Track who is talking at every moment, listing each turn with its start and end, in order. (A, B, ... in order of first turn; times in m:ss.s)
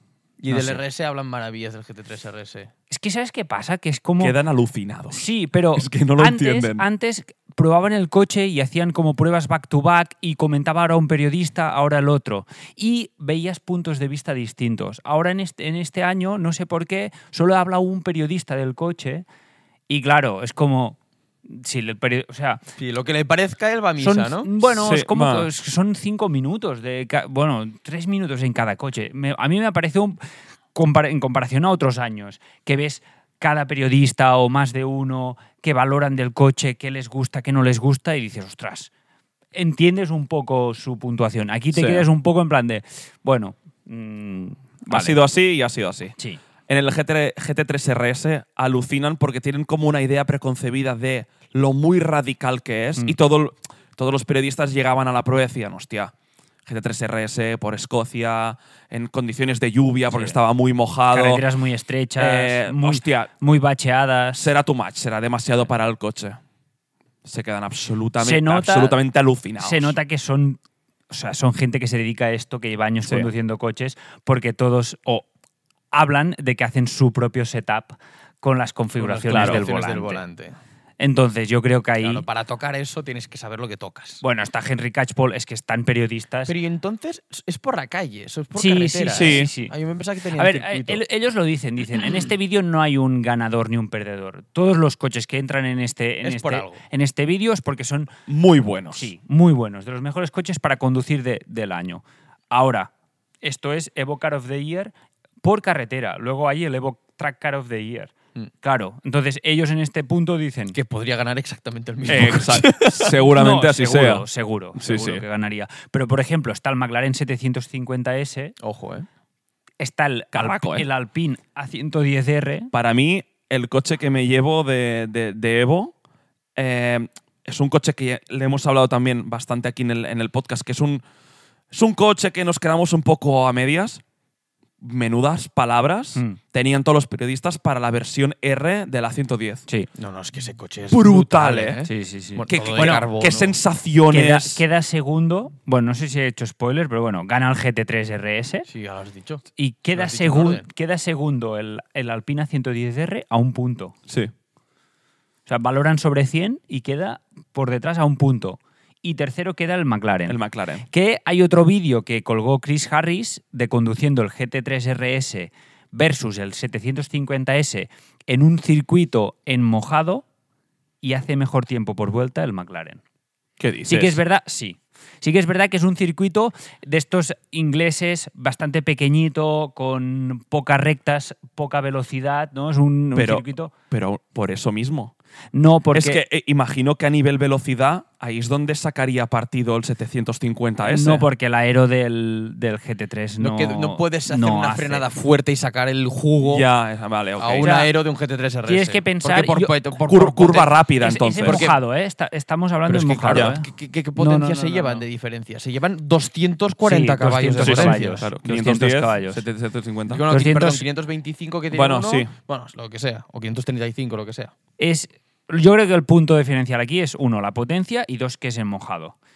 0:00.4-0:02.7 A
0:00.5-0:00.8 B
0:02.9-0:04.4 B
0:04.2-0:05.2 C
0:05.1-0:19.2 B
0:05.8-0:06.9 C
0:19.9-0:22.6 B
0:22.8-0:24.5 A
0:24.0-0:30.2 B
0:24.7-0:25.5 C
0:30.8-0:38.9 B
0:39.5-0:45.2 B
0:41.7-0:42.1 C
0:44.9-0:46.1 C
0:46.7-0:56.1 C
0:56.7-1:01.4 C
1:00.1-1:00.4 B
1:01.1-1:04.5 B
1:02.2-1:03.3 C
1:04.4-1:06.4 C
1:07.2-1:10.0 C
1:08.2-1:09.0 B
1:09.6-1:15.3 B
1:13.0-1:13.3 C
1:15.9-1:20.2 B
1:19.0-1:20.6 A
1:19.3-1:19.6 C
1:21.0-1:22.2 B
1:22.0-1:24.2 A
1:24.2-1:26.5 B
1:26.5-1:31.0 A
1:28.6-1:29.8 B
1:29.1-1:29.5 C
1:30.4-1:38.1 B
1:36.2-1:36.8 A
1:38.3-1:39.1 C
1:38.9-1:42.9 B
1:43.4-1:50.8 B
1:50.7-1:53.1 A
1:52.1-1:54.2 C
1:53.2-1:58.5 B
1:54.8-1:55.2 C
1:58.6-1:59.1 A
1:59.8-2:02.7 B
2:00.3-2:00.9 C
2:02.7-2:05.9 C
2:06.6-2:11.0 C
2:11.7-2:14.0 C
2:14.8-2:19.6 C
2:20.0-2:23.6 A
2:20.9-2:21.9 C
2:21.8-2:23.0 B
2:22.5-2:24.6 C
2:24.1-2:28.7 B
2:28.7-2:30.6 A
2:29.6-2:33.9 B
2:35.5-2:40.4 B
2:40.3-2:40.8 C
2:40.9-2:50.2 B
2:51.0-2:53.0 B
2:53.6-2:54.2 C
2:53.9-3:03.7 B
3:03.2-3:05.1 C
3:05.5-3:06.2 B
3:05.9-3:11.3 C
3:10.8-3:15.1 B
3:13.4-3:16.7 A
3:16.4-3:17.7 C
3:17.4-3:20.7 A
3:17.6-3:17.9 B
3:18.7-3:19.7 B
3:20.1-3:21.7 C
3:21.0-3:25.0 B
3:21.4-3:21.8 A
3:22.9-3:28.3 A
3:23.3-3:23.6 C
3:26.8-3:29.4 B
3:27.6-3:30.2 C
3:30.1-3:34.5 A
3:30.3-3:30.8 B
3:31.7-3:32.3 C
3:34.8-3:39.2 B